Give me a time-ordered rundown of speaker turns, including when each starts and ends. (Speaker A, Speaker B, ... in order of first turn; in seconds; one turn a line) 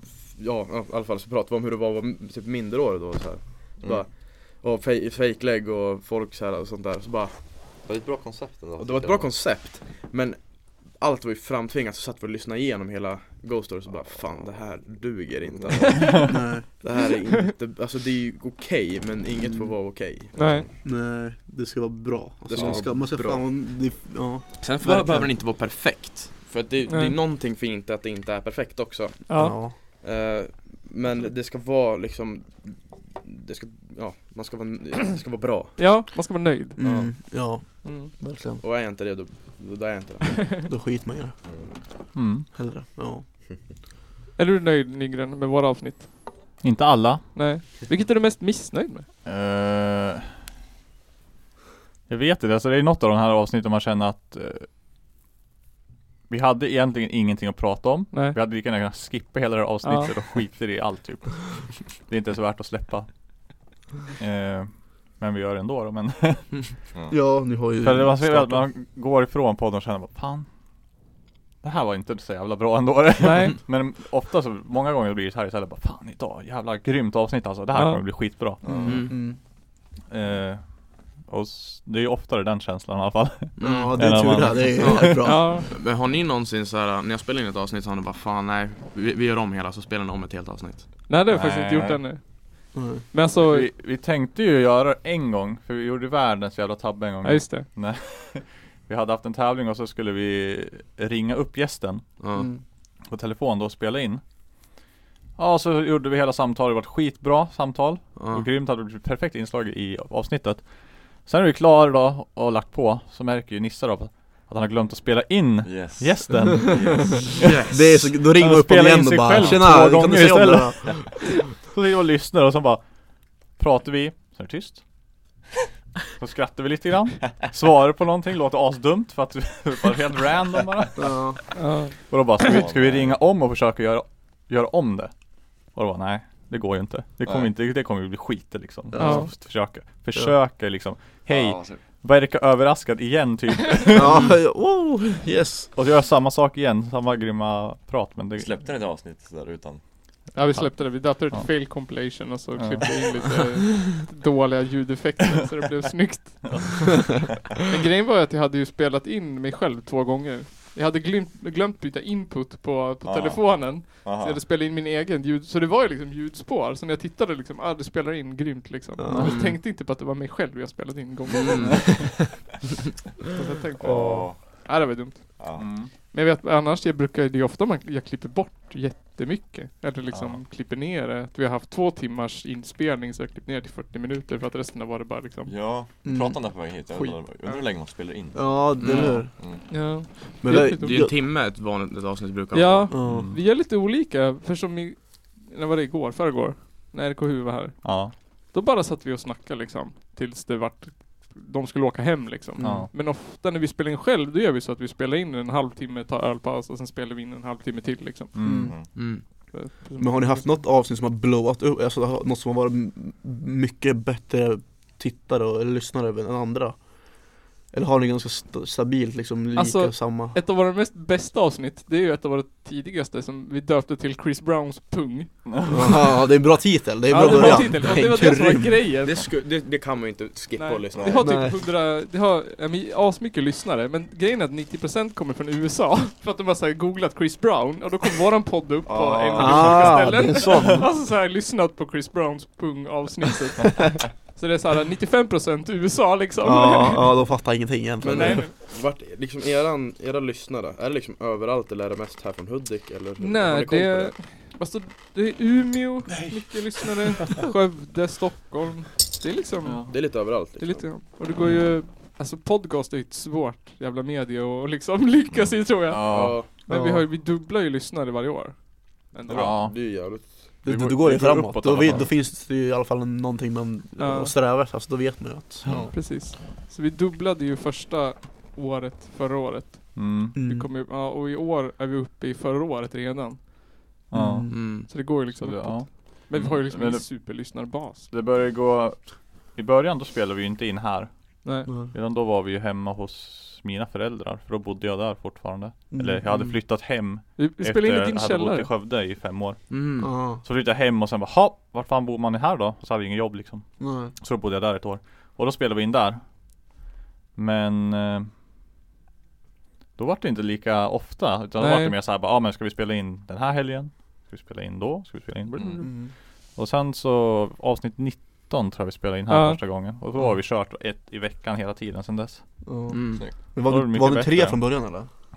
Speaker A: 0.3-7.6
Speaker B: 3.8-4.0
Speaker B: 7.8-9.3
Speaker A: 8.8-20.4
Speaker B: 15.6-15.9
Speaker C: 16.2-16.7
Speaker C: 19.4-19.7
Speaker D: 20.4-20.6
Speaker B: 20.4-20.6
Speaker C: 20.8-25.3
Speaker A: 22.5-23.4
Speaker B: 22.5-22.9
Speaker A: 24.6-35.9
Speaker D: 26.9-27.1
Speaker D: 29.3-29.6
Speaker C: 29.3-29.8
Speaker D: 35.8-37.1
Speaker C: 36.8-38.6
Speaker A: 36.8-37.1
Speaker D: 37.8-38.1
Speaker A: 38.6-40.6
Speaker C: 40.7-41.8
Speaker E: 42.1-42.5
Speaker C: 42.5-43.2
Speaker D: 44.4-46.1
Speaker E: 46.6-47.6
Speaker D: 47.3-49.1
Speaker E: 49.2-50.3
Speaker E: 52.1-54.7
Speaker E: 56.3-63.1
Speaker D: 58.1-58.4
Speaker D: 59.8-60.1
Speaker E: 64.2-66.6
Speaker B: 66.9-67.3
Speaker C: 67.1-68.7
Speaker E: 67.8-70.5
Speaker E: 71.6-79.1
Speaker D: 73.2-73.5
Speaker D: 77.7-78.0
Speaker B: 78.6-79.1
Speaker C: 78.7-79.4
Speaker A: 78.8-79.1
Speaker E: 80.1-85.3
Speaker A: 83.6-91.0
Speaker C: 83.6-85.6
Speaker D: 85.2-85.7
Speaker D: 91.1-93.7
Speaker E: 91.3-92.0
Speaker C: 92.7-93.0
Speaker E: 93.3-102.1
Speaker D: 97.2-97.7
Speaker A: 102.2-102.5
Speaker C: 102.3-102.6
Speaker E: 103.1-104.2
Speaker E: 105.4-117.5
Speaker A: 108.2-108.5
Speaker B: 115.6-117.5
Speaker A: 117.4-118.0
Speaker C: 117.6-121.2
Speaker E: 118.3-122.8
Speaker B: 119.4-119.6
Speaker E: 123.5-124.8
Speaker E: 126.2-144.3
Speaker C: 131.0-131.4
Speaker D: 131.5-132.6
Speaker B: 132.4-133.2
Speaker B: 137.2-137.5
Speaker C: 138.9-139.4
Speaker D: 138.9-139.3
Speaker B: 141.3-141.9
Speaker C: 143.9-145.7
Speaker E: 145.7-148.7
Speaker B: 148.4-149.8
Speaker D: 150.3-156.8
Speaker E: 150.4-151.5
Speaker E: 152.5-152.9
Speaker E: 156.4-157.2
Speaker D: 157.7-172.1
Speaker B: 163.0-164.4
Speaker C: 169.0-169.4
Speaker A: 169.2-169.6
Speaker A: 171.4-172.1
Speaker D: 173.3-185.5
Speaker B: 173.8-174.7
Speaker C: 173.8-174.3
Speaker B: 175.4-175.7
Speaker E: 175.6-175.9
Speaker E: 180.1-180.4
Speaker B: 185.4-189.7
Speaker C: 186.0-186.8
Speaker C: 188.3-189.8
Speaker A: 188.8-189.2
Speaker D: 188.9-191.0
Speaker C: 190.4-191.1
Speaker A: 190.5-192.9
Speaker D: 192.5-208.9
Speaker C: 192.9-193.3
Speaker E: 193.1-193.4
Speaker E: 197.8-198.2
Speaker C: 202.6-202.9
Speaker E: 202.6-202.9
Speaker E: 208.3-208.7
Speaker C: 208.4-209.2
Speaker A: 208.9-209.2
Speaker D: 209.5-210.6
Speaker C: 210.0-220.4
Speaker D: 219.6-225.9
Speaker E: 225.4-226.0
Speaker C: 225.7-228.9
Speaker D: 227.1-229.2
Speaker A: 229.0-231.4
Speaker D: 230.6-247.1
Speaker B: 230.9-231.2
Speaker C: 231.2-231.6
Speaker B: 238.9-240.3
Speaker C: 239.4-240.9
Speaker C: 246.4-248.5
Speaker A: 248.0-254.2
Speaker D: 248.0-248.5
Speaker D: 253.2-269.6
Speaker E: 259.6-259.9
Speaker A: 259.9-261.0
Speaker E: 261.4-261.7
Speaker E: 265.9-266.4
Speaker A: 266.1-266.5
Speaker C: 266.7-267.1
Speaker A: 269.3-272.0
Speaker E: 269.3-269.8
Speaker C: 270.6-275.9
Speaker E: 270.9-272.1
Speaker D: 274.0-274.3
Speaker B: 275.6-275.9
Speaker D: 275.9-283.5
Speaker E: 279.9-280.4
Speaker C: 280.3-280.7
Speaker E: 284.1-306.2
Speaker C: 284.1-284.8
Speaker A: 284.5-284.9
Speaker D: 284.9-288.1
Speaker C: 291.7-291.9
Speaker C: 295.9-296.6
Speaker D: 297.4-298.7
Speaker A: 299.7-300.2
Speaker C: 300.0-300.4
Speaker C: 303.8-304.1
Speaker E: 307.3-308.3
Speaker E: 309.9-322.6
Speaker D: 311.6-311.9
Speaker B: 315.5-315.8
Speaker C: 315.8-316.1
Speaker D: 319.3-319.8
Speaker C: 322.6-325.1
Speaker A: 322.9-323.2
Speaker E: 323.5-324.8